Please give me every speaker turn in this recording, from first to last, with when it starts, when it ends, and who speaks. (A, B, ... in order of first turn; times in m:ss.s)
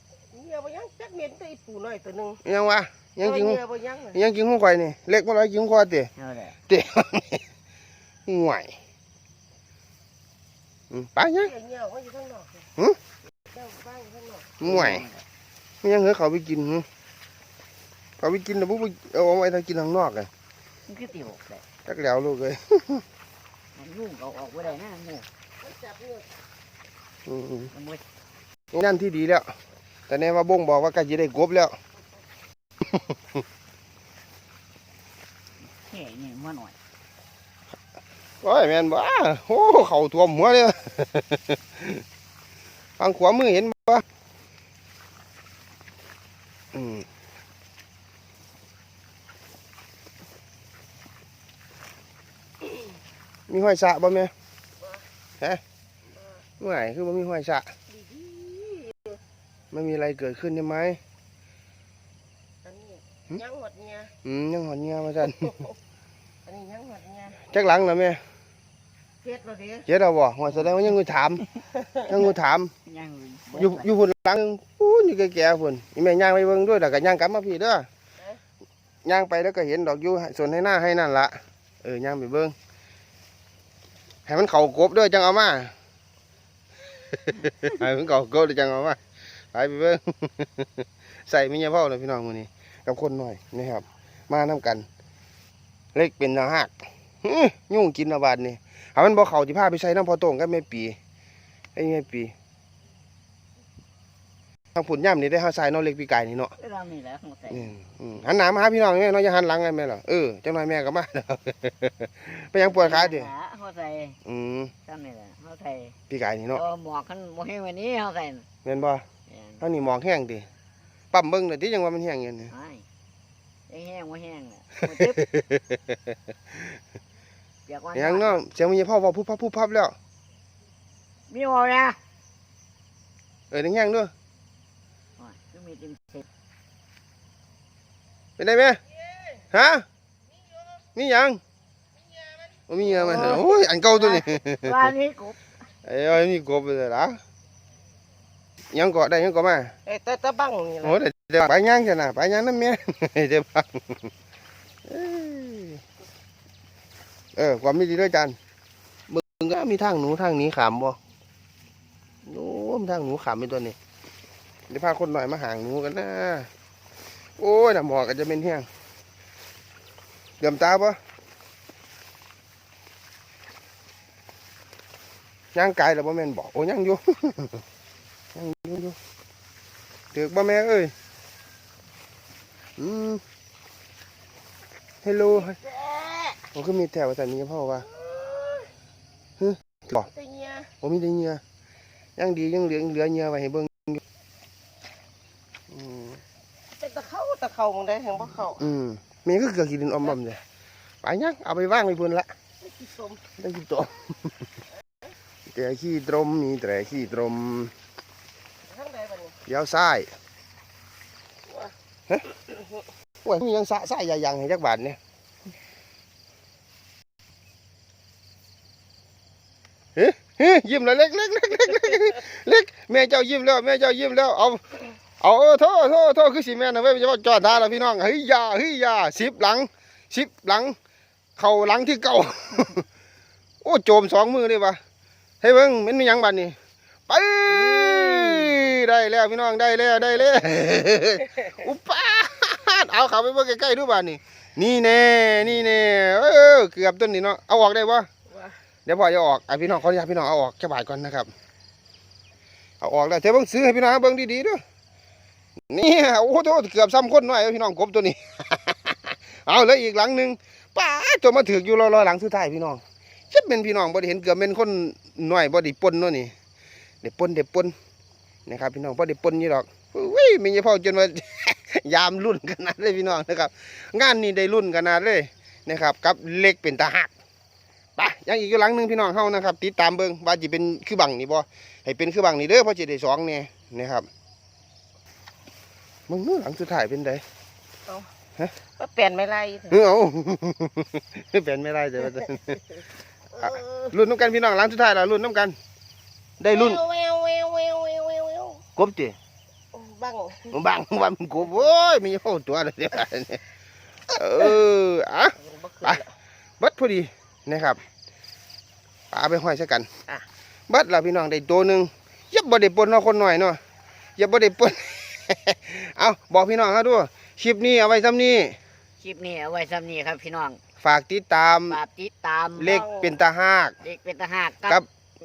0:00.3-0:02.4 A
0:02.4-0:03.6 B
0:03.2-0:04.2 A
0:04.1-0:06.1 B
0:06.2-0:06.6 C
0:06.7-0:07.4 B
0:08.3-0:08.8 B
0:10.9-0:11.5 B
0:11.4-0:12.6 A
0:13.5-0:14.6 A
0:14.6-0:15.1 B
0:14.6-0:15.2 C
0:15.8-0:16.9 B
0:18.2-0:20.3 B
0:20.9-0:21.6 C
0:21.9-0:23.0 B
0:23.8-0:25.3 C
0:25.6-0:26.3 A
0:27.3-0:27.7 B
0:27.7-0:28.0 C
0:28.7-0:29.5 B
0:30.1-0:31.8 B
0:35.7-0:36.8 C
0:38.4-0:42.0 B
0:43.0-0:44.0 B
0:46.7-0:47.1 B
0:53.5-0:54.3 B
0:56.6-0:57.7 B
0:57.9-0:59.2 A
0:59.7-1:01.0 B
1:02.6-1:04.1 A
1:04.2-1:05.6 B
1:06.4-1:07.4 A
1:07.5-1:08.2 B
1:09.2-1:09.9 A
1:09.9-1:12.7 B
1:10.5-1:10.9 C
1:12.8-1:13.9 C
1:13.5-1:17.9 B
1:19.0-1:22.6 B
1:24.3-1:25.7 B
1:27.2-1:29.0 B
1:29.5-1:34.9 B
1:36.0-1:36.7 B
1:37.2-1:41.0 B
1:41.8-1:42.3 B
1:44.8-1:46.5 B
1:46.6-1:47.8 C
1:47.5-1:53.3 B
1:52.6-1:54.2 C
1:54.3-1:54.7 B
1:54.8-1:56.0 C
1:56.1-1:56.6 B
1:56.5-1:58.5 C
1:58.6-1:59.0 B
1:59.3-1:59.6 C
1:59.6-2:00.5 B
2:01.1-2:02.5 B
2:02.5-2:02.8 C
2:03.7-2:05.2 C
2:04.8-2:06.0 B
2:07.7-2:08.4 C
2:07.9-2:10.0 B
2:11.3-2:12.0 C
2:13.5-2:14.1 B
2:15.2-2:16.3 C
2:18.4-2:18.8 B
2:19.5-2:19.8 B
2:21.0-2:21.4 B
2:22.2-2:23.5 A
2:22.7-2:24.9 B
2:23.1-2:25.4 C
2:25.9-2:27.2 B
2:28.7-2:29.7 B
2:29.9-2:31.0 A
2:30.8-2:34.1 B
2:34.9-2:35.8 B
2:37.4-2:38.4 B
2:39.1-2:41.0 B
2:42.2-2:43.8 B
2:44.7-2:46.5 B
2:47.4-2:48.7 B
2:50.4-2:51.0 B
2:55.6-2:57.6 B
2:58.4-2:59.0 B
3:00.1-3:00.9 B
3:02.8-3:03.2 B
3:05.0-3:05.6 B
3:05.3-3:06.4 A
3:06.5-3:07.9 B
3:07.9-3:08.7 A
3:09.4-3:10.1 B
3:10.0-3:10.7 A
3:10.8-3:11.4 B
3:12.2-3:14.0 B
3:15.7-3:16.2 B
3:16.8-3:18.6 A
3:18.6-3:20.4 B
3:21.0-3:22.3 B
3:22.6-3:23.2 A
3:23.4-3:24.3 B
3:25.5-3:27.7 B
3:28.7-3:29.4 A
3:29.5-3:30.1 B
3:31.5-3:31.7 A
3:33.2-3:35.0 B
3:40.0-3:50.8 B
3:51.4-3:52.8 B
3:53.6-3:54.8 B
3:55.4-3:56.6 B
3:57.1-4:08.1 B
3:57.7-3:58.4 C
4:08.9-4:11.3 B
4:12.8-4:14.6 B
4:15.7-4:26.3 B
4:27.0-4:27.7 B
4:28.5-4:37.1 B
4:38.0-4:44.1 B
4:46.1-4:47.2 B
4:48.8-4:49.8 A
4:49.7-4:52.6 B
4:53.3-4:53.9 A
4:53.4-4:55.6 B
4:56.4-4:56.8 B
4:56.5-4:58.6 A
4:58.8-4:59.2 B
4:59.7-5:00.6 A
5:00.5-5:03.4 B
5:04.1-5:06.0 B
5:05.4-5:06.1 A
5:06.6-5:07.8 B
5:09.1-5:09.9 B
5:10.7-5:13.6 B
5:14.2-5:18.6 B
5:19.0-5:20.6 C
5:20.8-5:21.8 B
5:21.7-5:22.8 C
5:22.6-5:23.8 B
5:22.6-5:23.1 A
5:23.8-5:24.8 C